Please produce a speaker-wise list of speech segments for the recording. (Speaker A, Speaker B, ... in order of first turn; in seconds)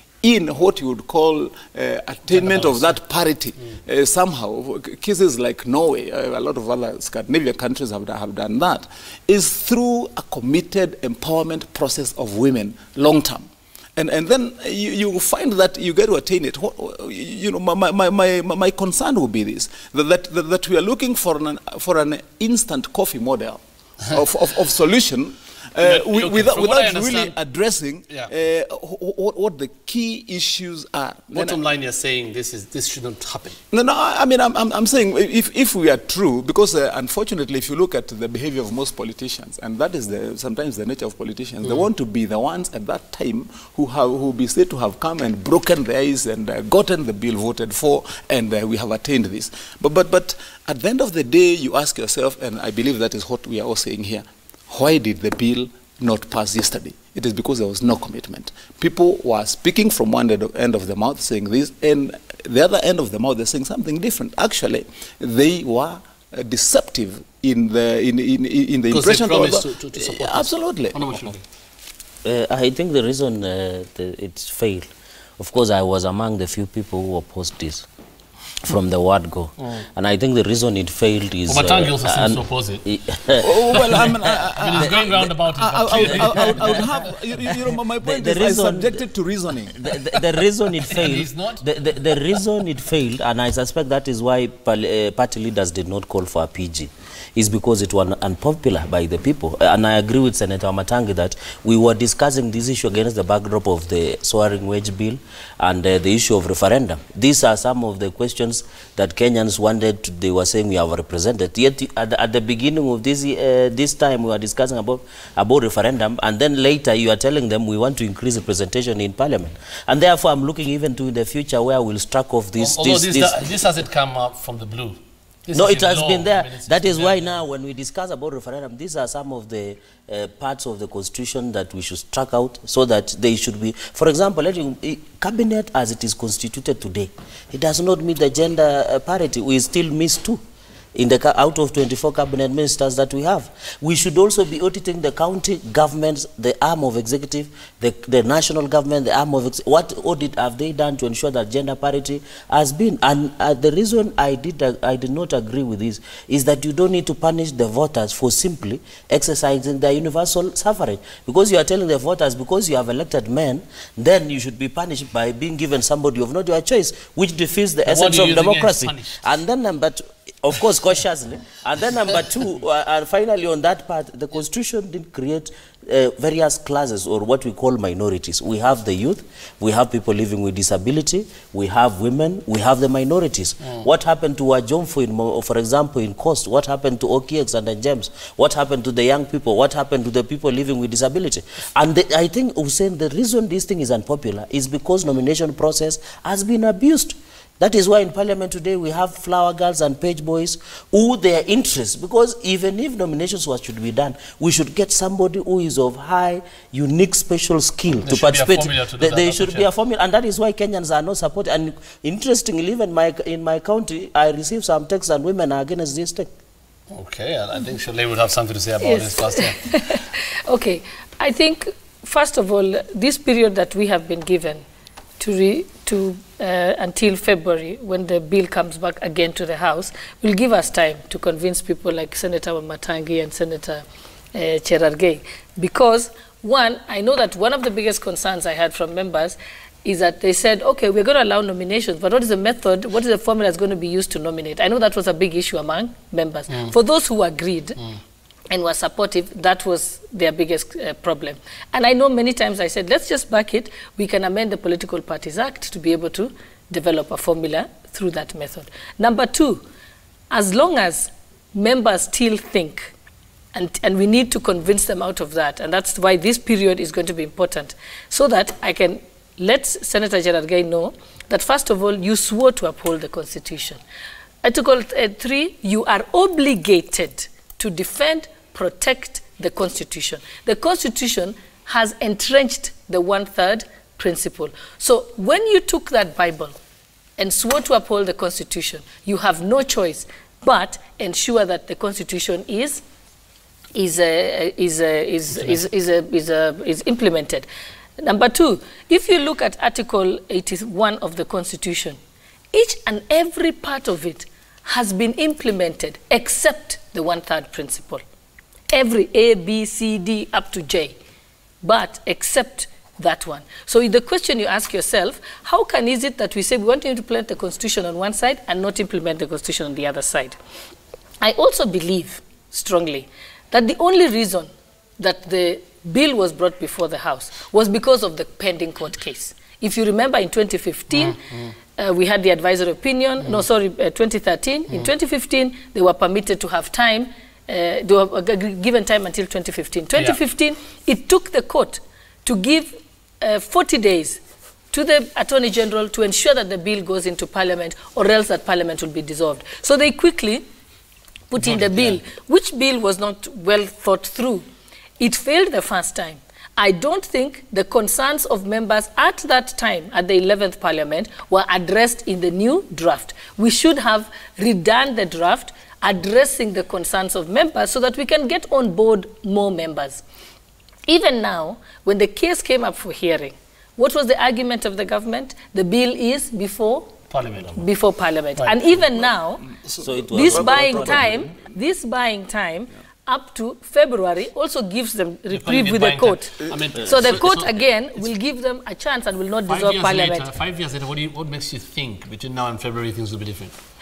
Speaker A: 0.2-31.6, 33.7-71.0, 83.3-89.9, 379.4-381.4
Speaker B: 2.3-3.0, 25.8-27.3, 31.3-33.6, 68.9-71.4, 81.5-82.8, 84.6-86.8, 90.9-91.6, 122.6-127.2, 167.9-169.3, 208.0-209.7, 216.9-219.6, 330.9-331.5, 351.4-352.0, 377.1-377.6, 378.4-378.8, 385.3-387.6, 389.5-393.5
Speaker C: 72.2-77.8, 78.6-84.0, 86.2-86.7, 88.0-89.0, 89.7-123.4, 125.5-140.4, 140.9-216.3, 379.8-381.1
Speaker D: 218.8-224.6, 225.2-247.8, 248.5-259.6, 260.3-262.9, 263.5-273.8, 274.4-286.5, 287.2-292.8, 293.7-297.5, 298.0-302.0, 302.5-308.0, 308.7-310.9, 311.6-320.3, 321.2-331.2, 331.8-344.2, 344.7-350.4, 351.3-354.4, 355.0-370.0, 370.9-376.9, 377.5-379.4, 380.1-390.3